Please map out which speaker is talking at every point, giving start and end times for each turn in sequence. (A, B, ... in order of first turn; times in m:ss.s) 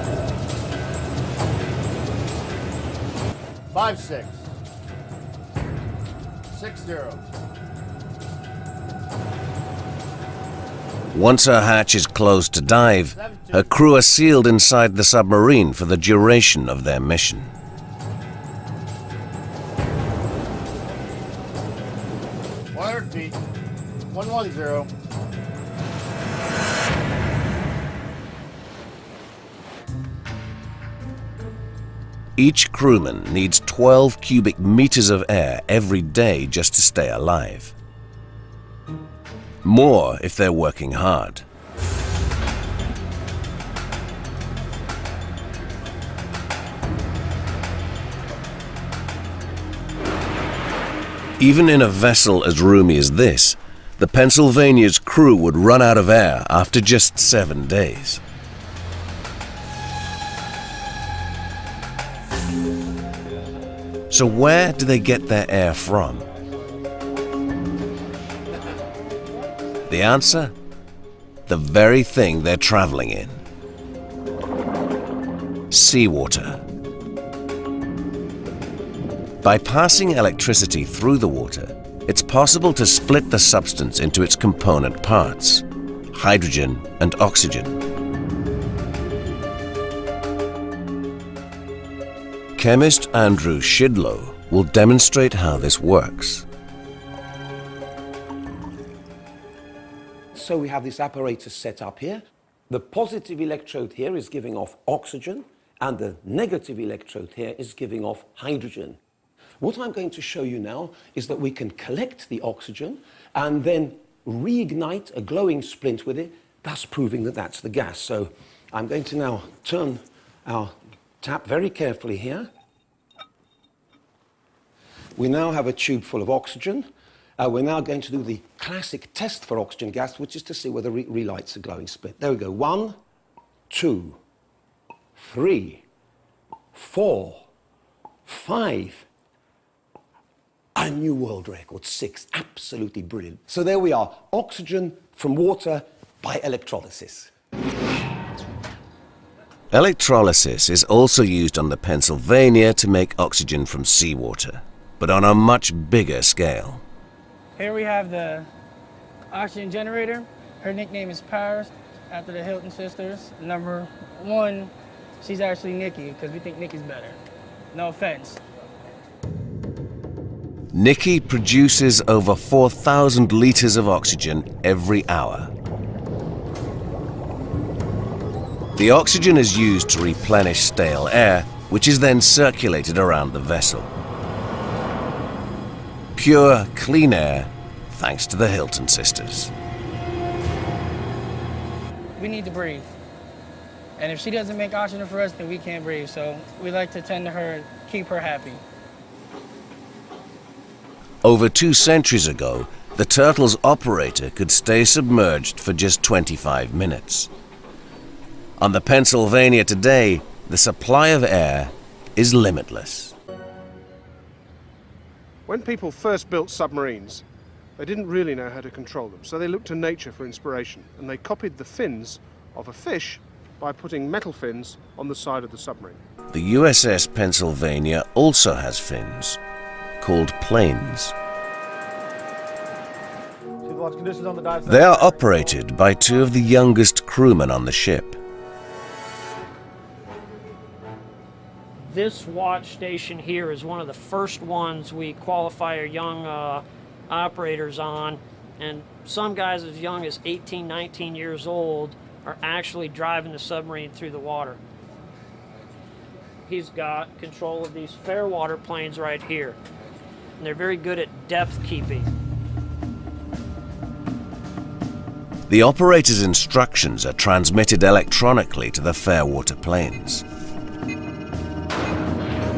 0:03.7-0:04.4 A
0:06.5-0:07.2 A
0:11.1-0:17.5 B
0:13.1-0:13.8 A
0:22.7-0:23.4 A
0:24.1-0:24.9 A
0:32.4-0:37.7 B
0:39.6-0:41.4 B
0:51.4-0:58.2 B
1:04.1-1:06.3 B
1:09.9-1:10.5 B
1:11.5-1:13.4 B
1:15.7-1:16.6 B
1:19.4-1:27.8 B
1:32.6-1:36.4 B
1:40.3-1:49.0 C
1:49.6-2:02.5 C
2:05.2-2:13.0 C
2:13.7-2:14.2 C
2:15.2-2:15.8 C
2:16.7-2:17.5 C
2:18.2-2:19.1 C
2:20.7-2:27.3 C
2:29.7-2:36.8 B
2:37.6-2:38.5 D
2:39.3-2:47.2 D
2:47.7-2:48.4 D
2:50.7-2:55.5 B
2:58.8-3:03.9 B
3:06.1-3:09.5 B
3:12.2-3:12.9 D
3:14.0-3:18.6 D
3:21.2-3:27.3 B
3:28.6-3:33.2 B
3:35.4-3:37.2 E
3:37.8-3:46.0 E
3:46.3-3:49.4 B
3:50.0-3:51.1 B
3:53.6-3:55.6 A
3:54.6-3:58.2 B
4:01.9-4:14.6 F
4:16.4-4:19.6 F
4:20.4-4:22.1 F
4:25.5-4:30.2 B